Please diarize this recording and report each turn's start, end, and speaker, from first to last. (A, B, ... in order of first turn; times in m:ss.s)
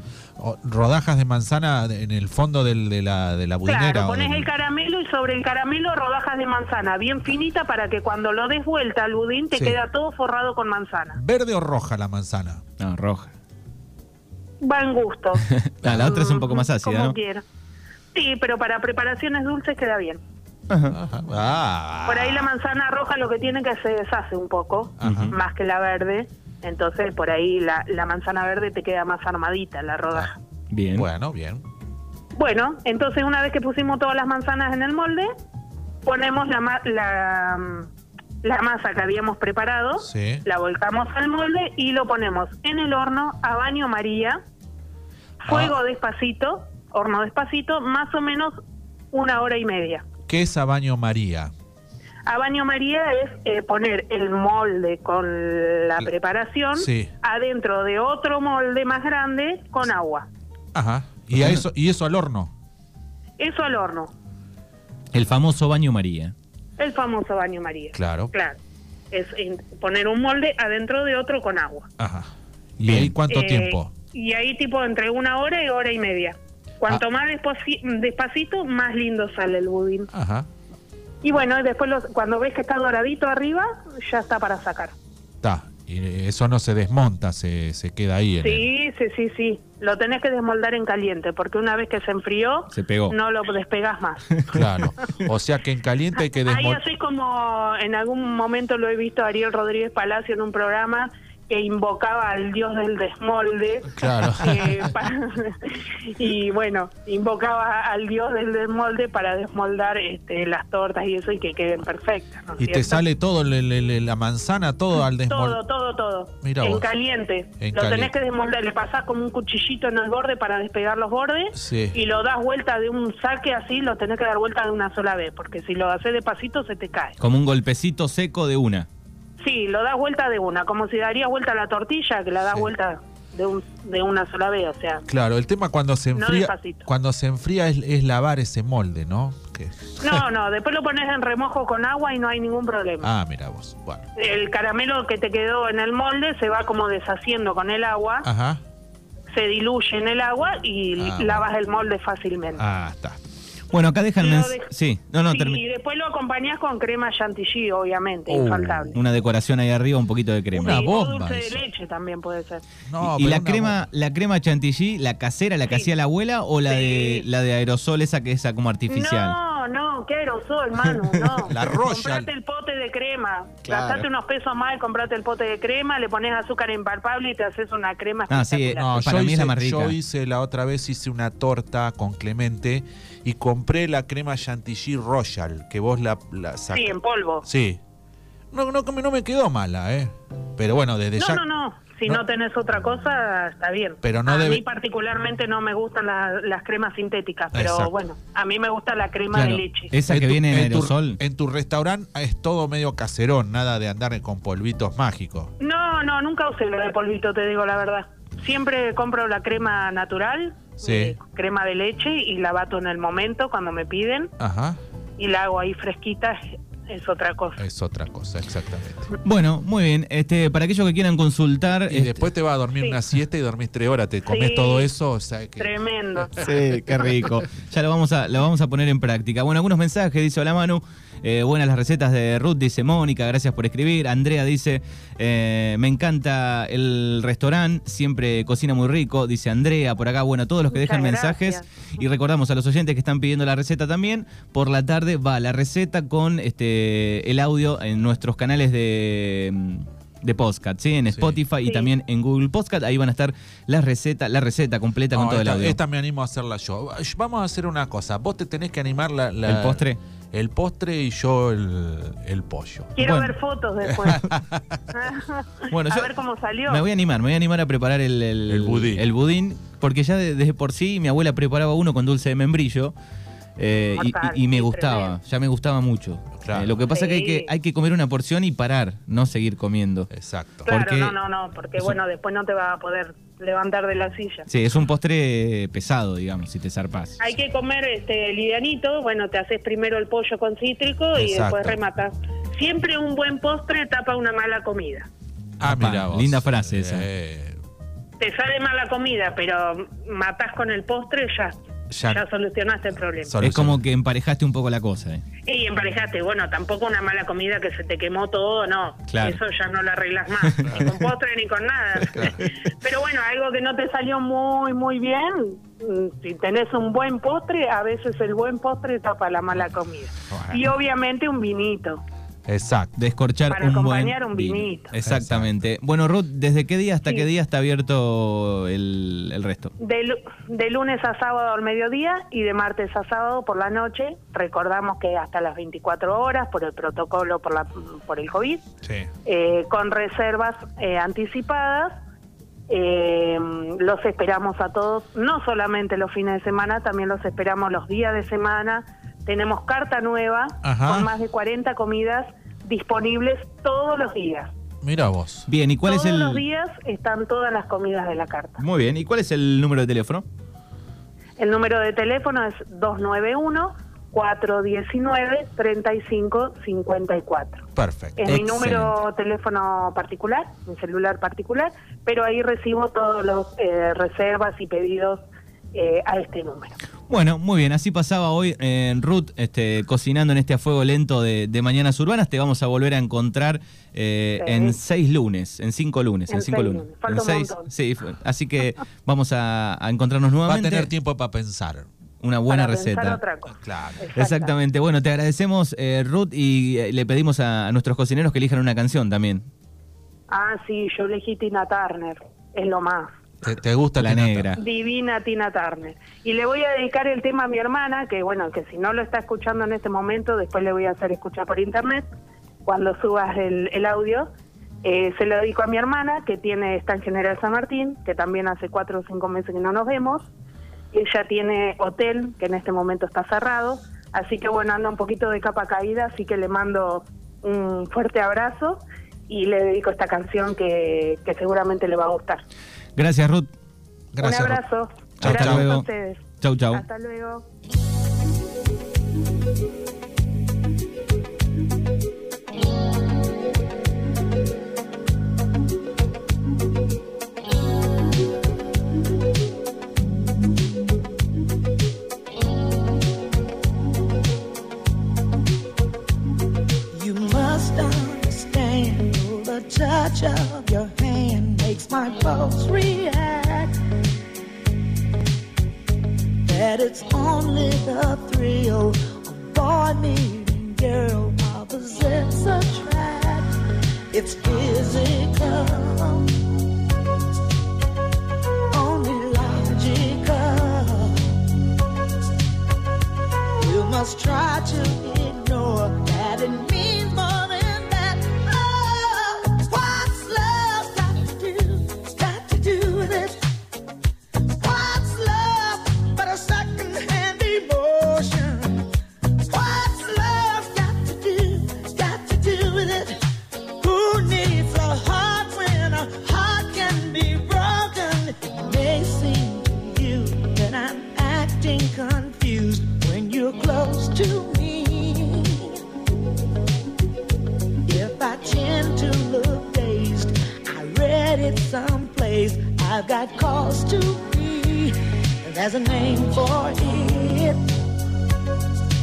0:00.4-0:04.5 A
0:03.6-0:11.2 B
0:11.2-0:12.6 A
0:12.8-0:13.3 C
0:14.6-0:17.4 B
0:15.5-0:17.2 C
0:18.1-0:20.2 B
0:20.7-0:21.0 C
0:20.9-0:22.5 A
0:22.0-0:30.4 B
0:25.0-0:25.4 A
0:25.0-0:25.3 C
0:30.7-0:31.1 C
0:31.0-0:31.6 A
0:32.3-0:35.3 B
0:36.0-0:37.9 B
0:38.4-0:44.4 B
0:40.0-0:40.4 A
0:45.4-0:48.6 B
0:45.4-0:45.8 A
0:49.1-0:50.0 B
0:50.3-0:51.5 A
0:52.2-1:00.3 B
0:56.8-0:57.1 A
1:00.7-1:02.5 A
1:01.3-1:01.6 C
1:03.4-1:04.1 B
1:05.1-1:06.3 C
1:06.8-1:08.6 B
1:07.9-1:08.3 A
1:09.1-1:11.9 B
1:12.0-1:13.9 A
1:12.8-1:13.1 C
1:13.3-1:20.1 B
1:20.1-1:20.5 A
1:21.2-1:24.9 B
1:25.4-1:28.7 A
1:28.4-1:34.4 B
1:32.7-1:33.2 C
1:34.5-1:36.8 A
1:36.4-1:53.0 B
1:43.9-1:44.9 A
1:52.6-1:55.6 A
1:55.3-2:07.2 B
1:56.4-1:56.9 A
1:57.6-1:58.1 A
2:01.5-2:02.0 A
2:07.2-2:08.9 C
2:09.4-2:15.0 B
2:15.1-2:20.2 A
2:16.1-2:16.9 B
2:20.0-2:23.1 B
2:23.0-2:24.0 A
2:24.2-2:28.3 B
2:28.2-2:28.6 A
2:29.3-2:32.6 B
2:31.0-2:31.5 A
2:32.6-2:33.2 A
2:33.7-2:35.6 C
2:34.2-2:34.7 B
2:35.3-2:39.0 B
2:38.3-2:39.0 A
2:38.9-2:40.8 C
2:40.5-2:41.6 A
2:40.6-2:42.6 B
2:42.8-2:43.9 A
2:43.0-2:49.4 C
2:46.7-2:47.2 B
2:48.9-2:59.0 B
2:51.4-2:52.3 A
2:53.6-2:54.0 C
2:58.3-3:00.0 C
2:58.8-3:07.8 A
3:06.7-3:07.4 B
3:08.5-3:11.4 A
3:11.2-3:19.9 B
3:14.0-3:14.6 A
3:17.5-3:17.9 A
3:19.3-3:21.2 C
3:20.1-3:25.5 A
3:25.6-3:34.3 B
3:30.8-3:31.2 A
3:34.4-3:34.8 A
3:35.2-3:37.6 B
3:37.6-3:39.1 A
3:39.2-3:42.2 C
3:41.9-3:47.1 A
3:44.3-3:44.9 B
3:45.6-3:46.4 B
3:46.4-4:15.8 C
4:00.7-4:01.6 B
4:11.1-4:11.4 A
4:11.6-4:11.9 B
4:15.1-4:23.0 A
4:19.4-4:20.0 C
4:23.0-4:24.3 B
4:23.0-4:23.3 C
4:23.8-4:24.8 A
4:24.9-4:26.8 B
4:25.7-4:26.1 C
4:26.7-4:32.9 C
4:28.5-4:29.0 A
4:33.6-4:40.1 C
4:33.9-4:35.2 B
4:36.4-4:36.8 A
4:36.9-4:37.5 B
4:40.1-4:40.7 A
4:40.6-4:41.1 C
4:40.6-4:44.5 B
4:44.5-4:47.2 C
4:47.2-4:55.1 B
4:51.1-4:51.8 A
4:55.6-4:57.6 A
4:55.6-4:57.0 C
4:58.2-5:03.4 B
5:01.9-5:02.2 A
5:03.2-5:03.8 A
5:03.4-5:05.2 C
5:05.4-5:22.0 B
5:09.1-5:09.4 C
5:10.4-5:10.8 C
5:12.1-5:12.4 A
5:20.3-5:20.7 A
5:22.5-5:23.0 A
5:23.0-5:29.7 C
5:23.5-5:24.9 B
5:24.9-5:25.7 A
5:29.8-5:38.6 B
5:38.8-5:39.1 A
5:39.2-5:42.0 B
5:42.7-5:54.5 B
5:50.6-5:51.1 A
5:54.8-5:55.5 A
5:55.5-5:56.4 C
5:55.8-5:58.6 B
5:58.6-6:00.2 C
6:01.4-6:07.6 B
6:07.7-6:08.5 A
6:08.2-6:16.7 B
6:08.3-6:08.9 C
6:17.1-6:30.9 C
6:24.4-6:24.8 B
6:26.3-6:27.7 B
6:30.4-6:31.9 A
6:32.2-6:33.2 C
6:32.5-6:34.5 B
6:33.6-6:34.0 A
6:34.2-6:39.5 C
6:40.3-6:43.1 B
6:43.4-6:44.5 A
6:44.0-6:44.6 C
6:44.6-6:52.0 B
6:52.6-6:54.3 B
6:54.8-7:00.3 B
7:00.9-7:12.4 B
7:13.0-7:13.5 C
7:14.1-7:14.6 A
7:14.2-7:17.4 B
7:15.2-7:15.9 C
7:15.2-7:15.7 A
7:16.4-7:16.8 C
7:36.9-7:43.7 D
7:46.4-7:53.5 D
7:54.1-7:56.3 D
7:58.7-8:01.4 D
8:03.6-8:13.4 D
8:14.6-8:18.9 D
8:19.4-8:23.2 D
8:23.8-8:35.8 D
8:37.8-8:47.6 D